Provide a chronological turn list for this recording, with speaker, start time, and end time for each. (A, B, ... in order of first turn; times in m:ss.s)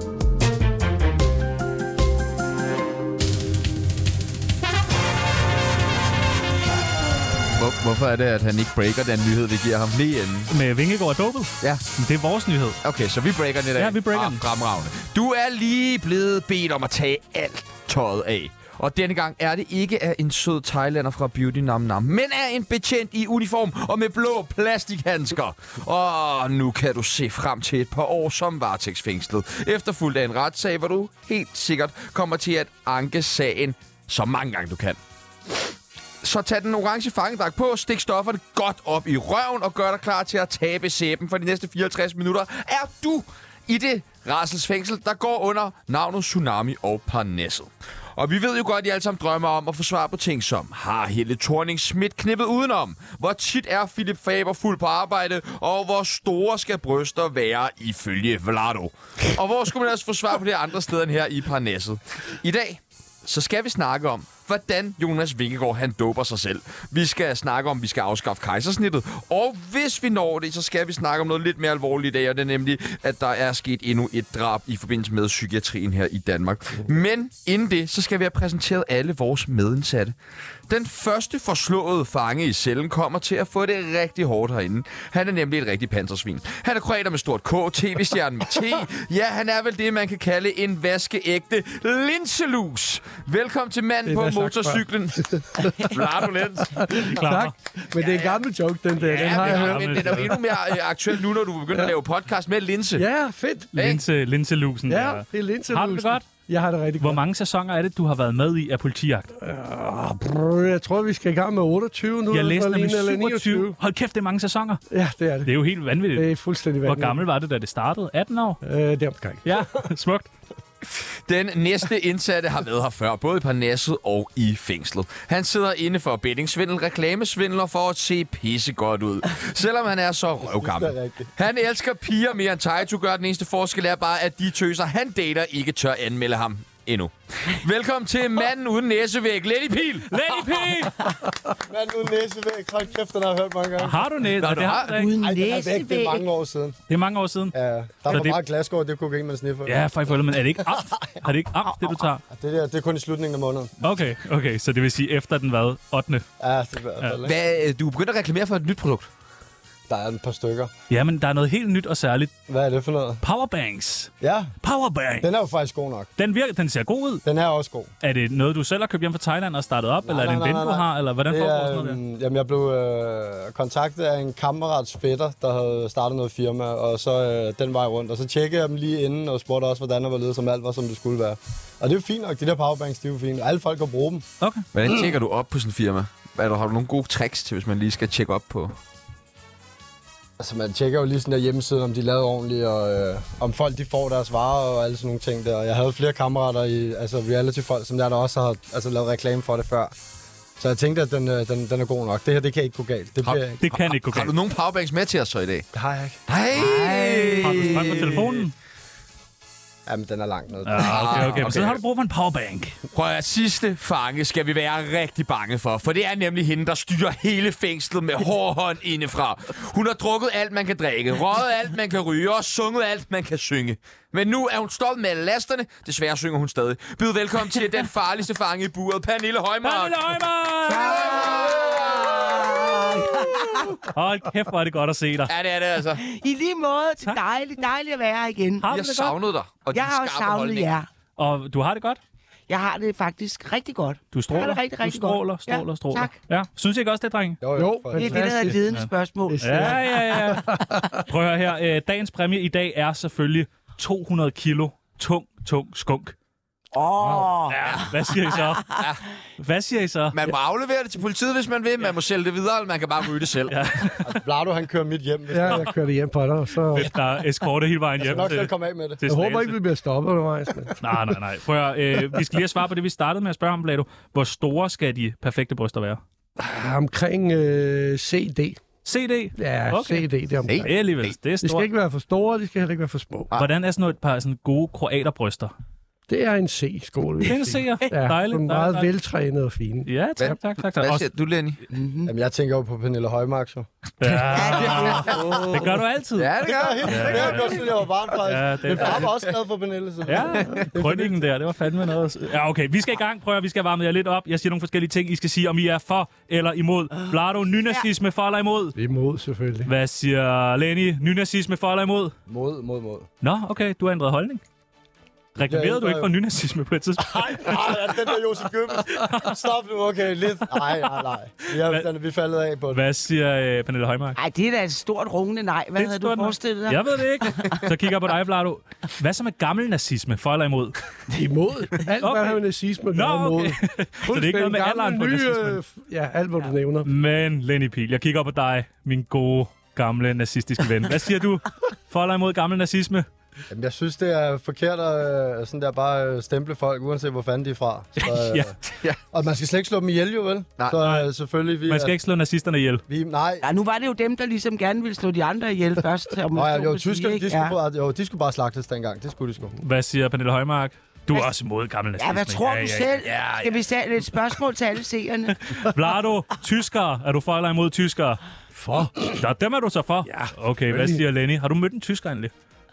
0:07.6-0:10.5 A
0:10.5-0:12.8 B
0:12.8-0:35.0 A
0:13.8-0:14.4 B
0:36.2-1:20.1 A
1:20.7-1:37.0 A
1:34.1-1:36.0 C
1:36.7-1:40.3 C
1:37.1-1:37.5 B
1:38.0-1:38.4 A
1:39.0-1:43.1 A
1:39.3-1:40.5 B
1:43.0-1:43.8 C
1:43.8-1:44.0 A
1:43.8-1:46.3 B
1:44.9-1:47.2 C
1:47.0-1:49.3 B
1:49.4-1:53.8 C
1:52.3-1:54.8 B
1:54.9-1:55.6 C
1:55.4-1:58.6 B
1:56.1-1:57.2 C
1:58.6-1:59.6 C
1:59.4-2:00.3 B
2:00.8-2:20.2 A
2:10.5-2:11.3 D
2:20.1-2:21.2 B
2:21.6-2:24.0 D
2:23.8-2:25.1 B
2:24.4-2:25.0 A
2:24.9-2:26.2 E
2:25.2-2:26.8 D
2:26.9-2:27.5 B
2:27.5-2:29.8 D
2:28.1-2:28.4 B
2:29.7-2:32.2 B
2:32.3-2:33.7 D
2:33.8-2:36.2 B
2:36.4-2:37.3 D
2:37.2-2:39.1 A
2:39.9-2:40.7 D
2:40.9-2:42.3 B
2:42.5-2:43.2 D
2:43.2-2:44.1 B
2:44.2-2:44.5 D
2:44.6-2:45.3 B
2:45.2-2:46.1 D
2:46.2-2:47.2 B
2:47.2-2:47.9 D
2:48.0-2:52.0 B
2:50.0-3:04.3 D
3:04.7-3:08.7 A
3:10.4-3:19.9 D
3:20.6-3:23.6 D
3:23.2-3:25.7 A
3:23.6-3:24.3 B
3:25.7-3:26.2 D
3:26.3-3:28.4 A
3:26.6-3:28.1 E
3:27.4-3:28.5 B
3:29.8-3:31.6 D
3:30.7-3:32.8 B
3:30.8-3:31.8 A
3:32.9-3:50.0 A
3:49.6-3:51.3 B
3:50.7-3:53.8 E
3:50.7-3:52.6 A
3:53.8-3:55.3 B
3:55.3-3:56.0 A
3:56.0-3:58.7 E
3:58.6-3:59.2 B
3:58.7-4:00.7 A
3:59.7-4:00.9 E
4:01.2-4:02.0 B
4:02.5-4:06.1 E
4:04.1-4:07.4 B
4:07.4-4:08.3 D
4:07.6-4:08.6 C
4:07.9-4:09.8 E
4:09.3-4:11.0 C
4:09.4-4:16.1 B
4:16.7-4:18.4 E
4:17.4-4:18.8 B
4:18.8-4:19.0 A
4:19.4-4:20.1 B
4:20.1-4:23.6 A
4:23.5-4:24.1 B
4:24.0-4:25.7 D
4:25.3-4:26.9 C
4:26.7-4:29.6 B
4:28.0-4:29.0 D
4:29.1-4:30.8 C
4:30.8-4:36.0 B
4:36.4-4:38.6 C
4:38.8-4:40.1 B
4:39.4-4:40.7 C
4:40.5-4:41.2 A
4:40.6-4:41.7 B
4:41.4-4:43.3 C
4:43.3-4:45.5 B
4:46.1-4:50.4 C
4:47.2-4:48.9 B
4:49.8-4:51.1 B
4:50.2-4:51.6 A
4:51.7-4:52.1 E
4:52.1-4:53.7 D
4:54.0-4:56.3 B
4:54.3-4:54.9 E
4:54.7-4:55.1 A
4:55.0-4:55.8 C
4:56.2-4:57.6 A
4:56.4-5:01.2 D
4:56.8-4:57.6 B
4:58.2-4:59.1 B
5:00.1-5:08.8 B
5:08.8-5:09.7 C
5:09.7-5:12.1 B
5:12.3-5:13.1 D
5:13.2-5:14.4 B
5:15.3-5:17.6 B
5:15.5-5:16.1 D
5:17.1-5:22.8 D
5:22.7-5:24.2 B
5:24.2-5:27.6 E
5:25.8-5:30.8 B
5:31.1-5:36.9 C
5:32.0-5:35.6 B
5:36.8-5:43.1 B
5:43.5-5:48.6 D
5:48.0-5:48.6 B
5:49.1-5:51.9 D
5:51.7-5:52.8 B
5:52.9-5:53.4 D
5:53.4-5:57.6 E
5:56.3-5:59.5 D
5:59.6-6:03.1 B
6:02.0-6:05.6 E
6:03.0-6:03.5 A
6:05.4-6:08.2 B
6:08.5-6:09.2 C
6:09.0-6:12.3 B
6:10.1-6:11.0 C